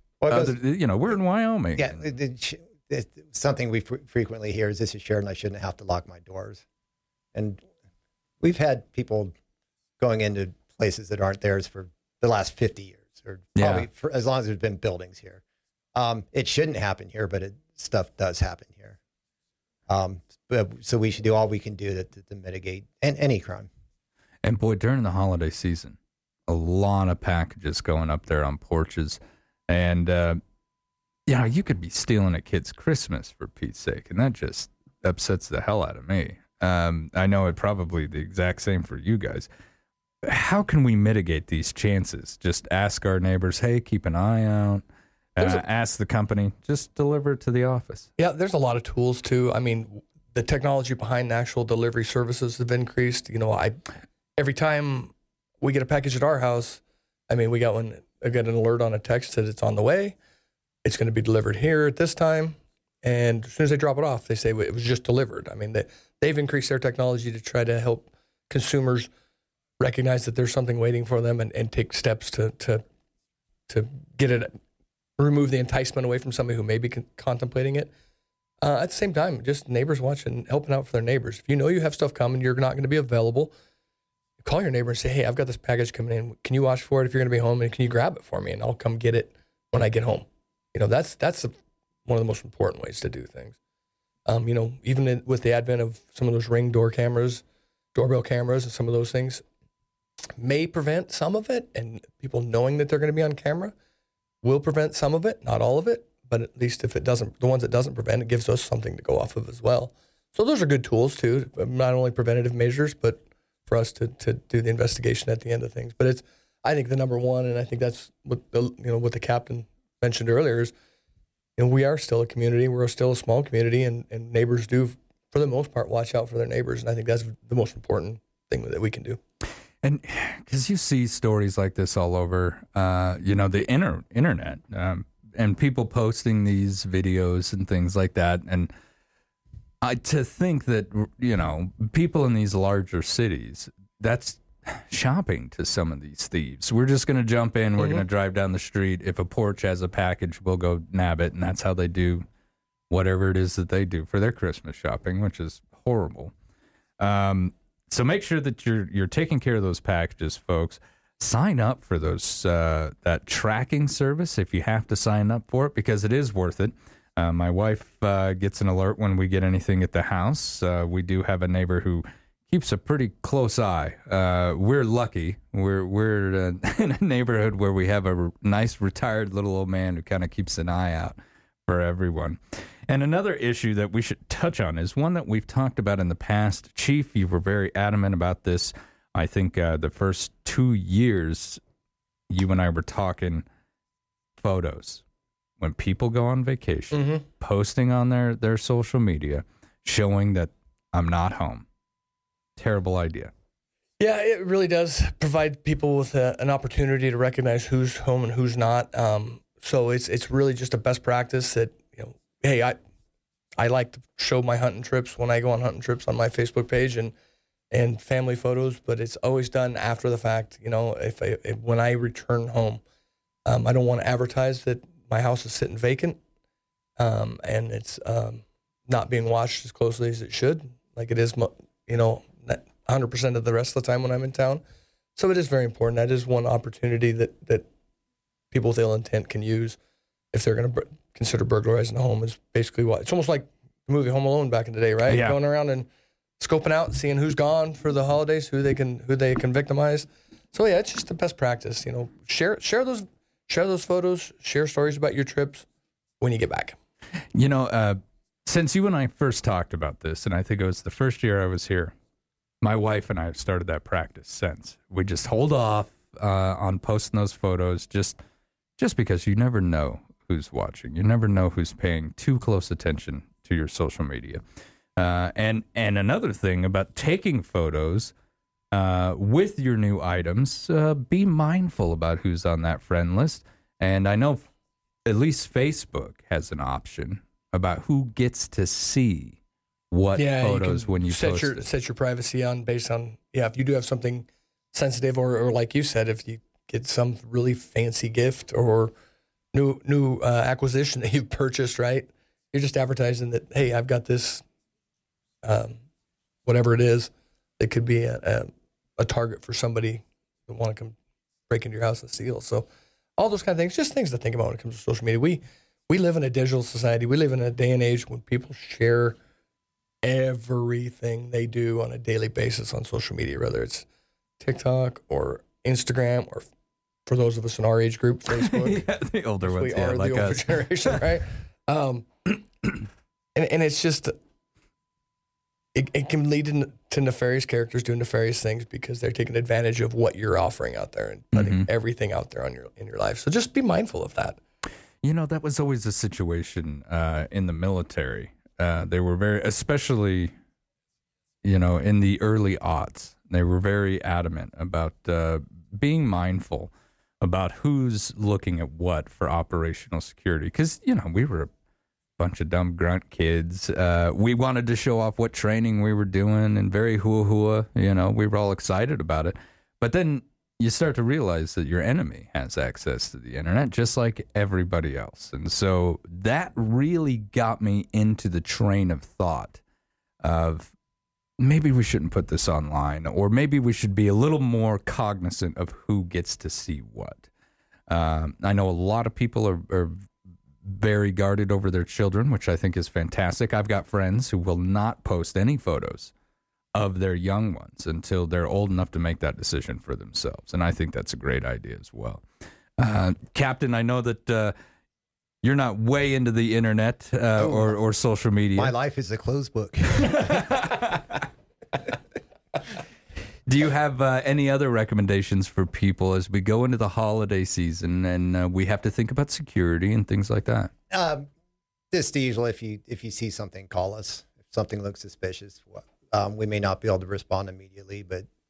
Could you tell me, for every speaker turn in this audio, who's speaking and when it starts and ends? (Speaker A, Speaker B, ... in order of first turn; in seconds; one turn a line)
Speaker A: 0.2-0.6
Speaker B: 0.3-2.0
Speaker A: 1.8-6.6
Speaker A: 7.3-7.7
Speaker A: 8.4-9.3
Speaker A: 10.0-15.4
Speaker B: 13.6-13.9
Speaker A: 15.9-19.0
Speaker A: 19.9-23.7
Speaker B: 24.4-26.0
Speaker B: 26.5-30.4
Speaker B: 31.3-39.5
Speaker B: 40.2-44.8
Speaker B: 45.4-48.1
Speaker C: 48.2-53.8
Speaker C: 54.4-60.2
Speaker C: 60.9-69.1
Speaker C: 69.8-72.8
Speaker C: 73.7-74.6
Speaker C: 75.2-77.9
Speaker C: 78.6-83.5
Speaker C: 84.4-93.6
Speaker C: 94.3-97.4
Speaker C: 98.0-99.4
Speaker C: 100.4-103.8
Speaker C: 104.4-120.7
Speaker C: 121.6-129.2
Speaker B: 129.8-138.7
Speaker B: 139.8-152.3
Speaker C: 147.8-148.0
Speaker B: 152.9-156.3
Speaker B: 157.0-191.6
Speaker B: 192.3-193.5
Speaker B: 194.4-195.0
Speaker B: 195.6-201.7
Speaker C: 196.9-197.2
Speaker B: 202.6-203.3
Speaker C: 204.0-212.8
Speaker C: 213.6-217.1
Speaker C: 217.7-222.8
Speaker C: 223.5-226.2
Speaker C: 227.0-234.6
Speaker C: 235.2-237.7
Speaker C: 238.5-239.8
Speaker C: 240.3-245.9
Speaker B: 245.1-245.4
Speaker C: 246.4-255.7
Speaker C: 256.2-256.8
Speaker B: 257.4-261.9
Speaker B: 262.6-268.2
Speaker B: 268.8-274.4
Speaker B: 275.0-278.1
Speaker B: 278.7-284.5
Speaker B: 285.1-289.4
Speaker B: 289.9-291.7
Speaker C: 290.1-298.9
Speaker C: 299.5-304.4
Speaker C: 305.4-305.8
Speaker C: 306.5-311.0
Speaker C: 311.5-319.2
Speaker C: 320.0-323.9
Speaker C: 324.4-326.5
Speaker C: 327.1-328.9
Speaker B: 328.4-331.0
Speaker C: 329.4-332.4
Speaker C: 333.4-334.2
Speaker C: 335.8-344.4
Speaker B: 341.3-341.7
Speaker B: 345.0-350.3
Speaker B: 351.4-361.5
Speaker B: 362.2-379.6
Speaker B: 380.2-380.7
Speaker B: 381.4-387.3
Speaker B: 387.9-390.1
Speaker B: 390.6-396.1
Speaker B: 396.8-402.2
Speaker B: 402.8-404.5
Speaker B: 405.4-408.7
Speaker A: 407.4-407.8
Speaker A: 408.6-410.3
Speaker B: 410.3-410.8
Speaker B: 413.5-420.7
Speaker A: 420.9-421.3
Speaker A: 421.9-428.3